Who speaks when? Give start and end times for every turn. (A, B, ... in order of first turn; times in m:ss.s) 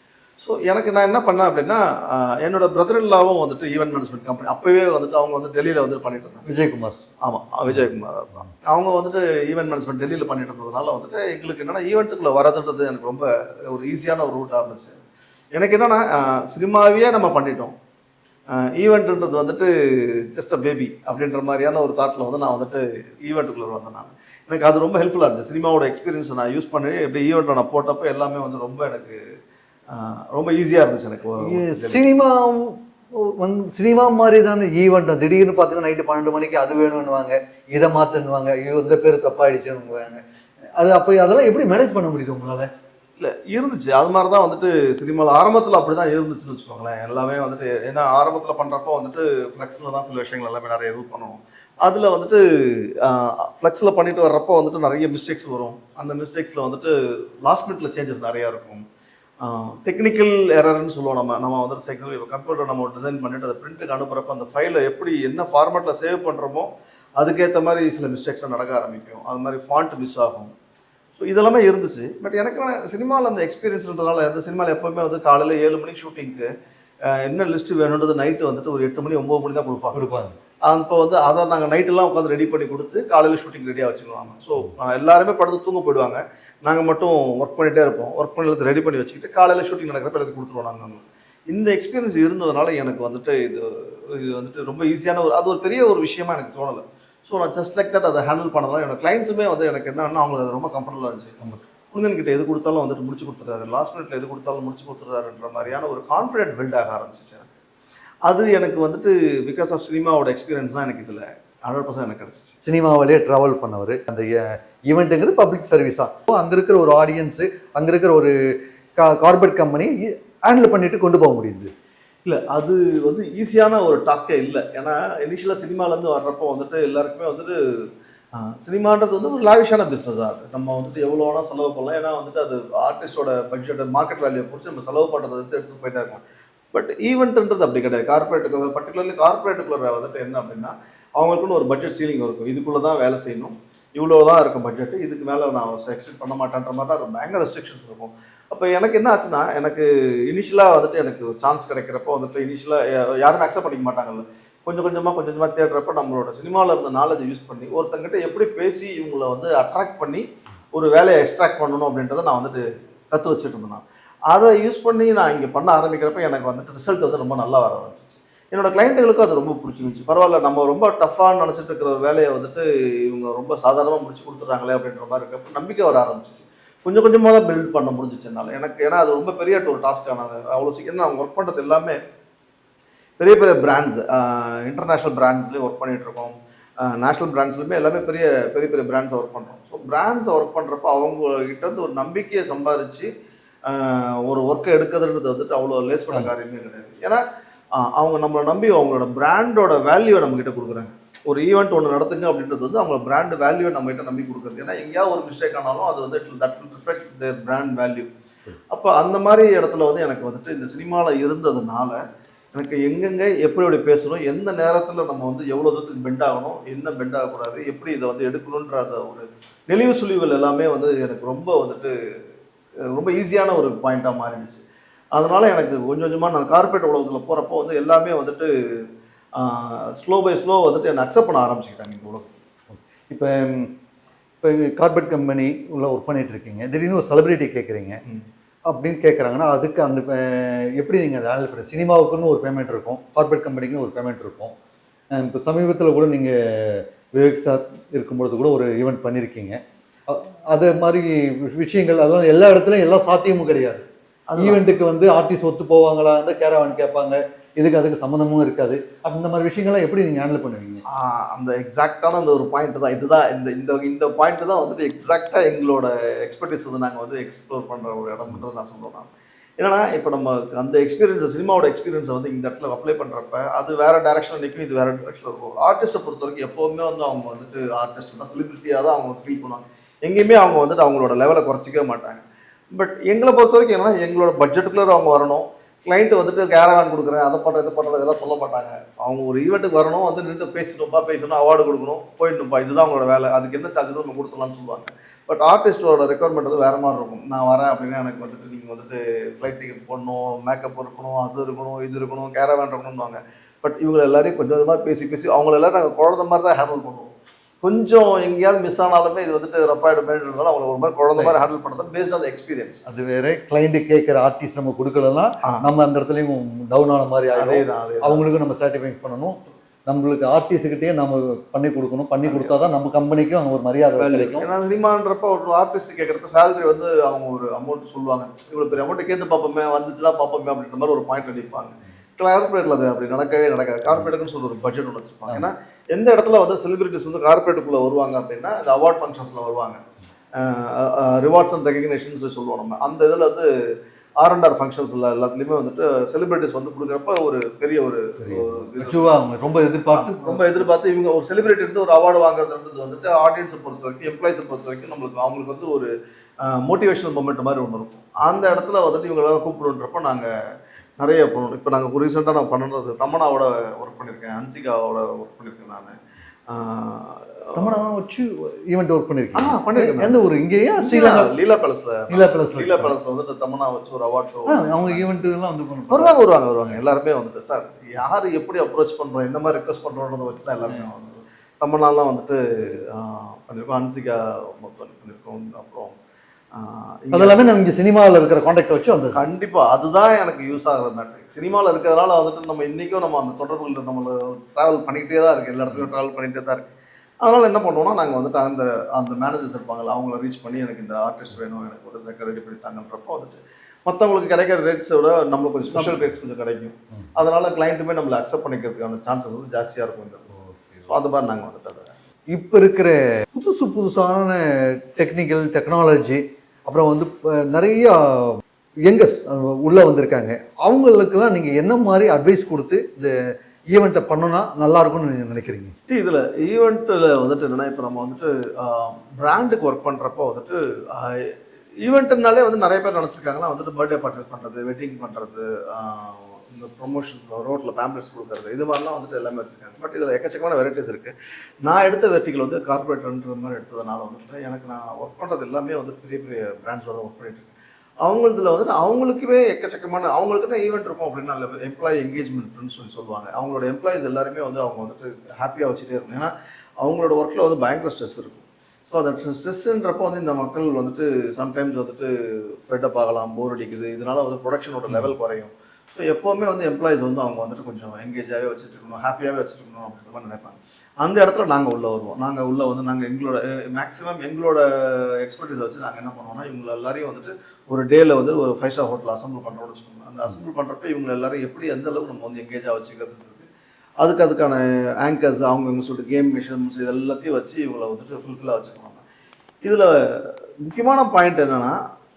0:00.4-0:06.4 A
0:06.5-0:07.0 B
0:07.2-0:15.0 A
0:15.6-0:17.7 A
0:18.5-0:29.2 A
0:29.9-0:32.0 A
0:31.4-0:40.2 B
0:40.8-0:42.7 B
0:43.2-0:58.8 A
0:59.4-1:10.5 A
1:11.2-1:16.5 A
1:17.1-1:20.0 A
1:19.9-1:20.4 B
1:20.7-1:41.4 A
1:41.9-1:47.5 A
1:48.3-1:52.5 A
1:52.6-1:58.3 B
1:59.0-2:01.7 B
2:02.2-2:07.6 A
2:08.4-2:16.2 A
2:16.7-3:02.0 A
3:03.2-3:13.1 A
3:13.7-3:17.2 A
3:17.8-3:28.1 A
3:28.7-3:32.0 A
3:32.5-3:41.9 A
3:42.9-3:44.6 A
3:45.2-3:52.4 A
3:52.7-3:53.7 B
3:54.4-3:58.0 B
3:58.7-4:04.5 B
4:05.1-4:13.9 B
4:14.3-4:14.6 A
4:14.4-4:20.8 B
4:20.9-5:07.1 A
5:07.6-5:12.8 A
5:12.9-5:24.5 B
5:17.4-5:18.2 A
5:22.2-5:22.6 A
5:24.0-5:39.8 A
5:40.4-5:43.5 A
5:44.2-5:49.1 A
5:48.2-5:50.6 B
5:49.9-5:55.9 A
5:56.4-6:00.3 A
6:01.0-6:06.0 A
6:06.5-6:07.7 A
6:07.6-6:11.3 B
6:09.4-6:10.2 A
6:10.8-6:15.1 A
6:12.1-6:13.0 B
6:14.5-6:16.8 B
6:15.9-6:26.0 A
6:26.5-6:27.4 A
6:27.1-6:29.2 B
6:29.1-6:36.7 A
6:37.2-6:50.3 A
6:50.4-6:50.9 B
6:50.9-6:51.9 A
6:52.3-7:05.8 B
7:05.9-7:27.5 A
7:28.0-8:03.5 A
8:04.0-8:09.0 A
8:09.6-8:11.8 A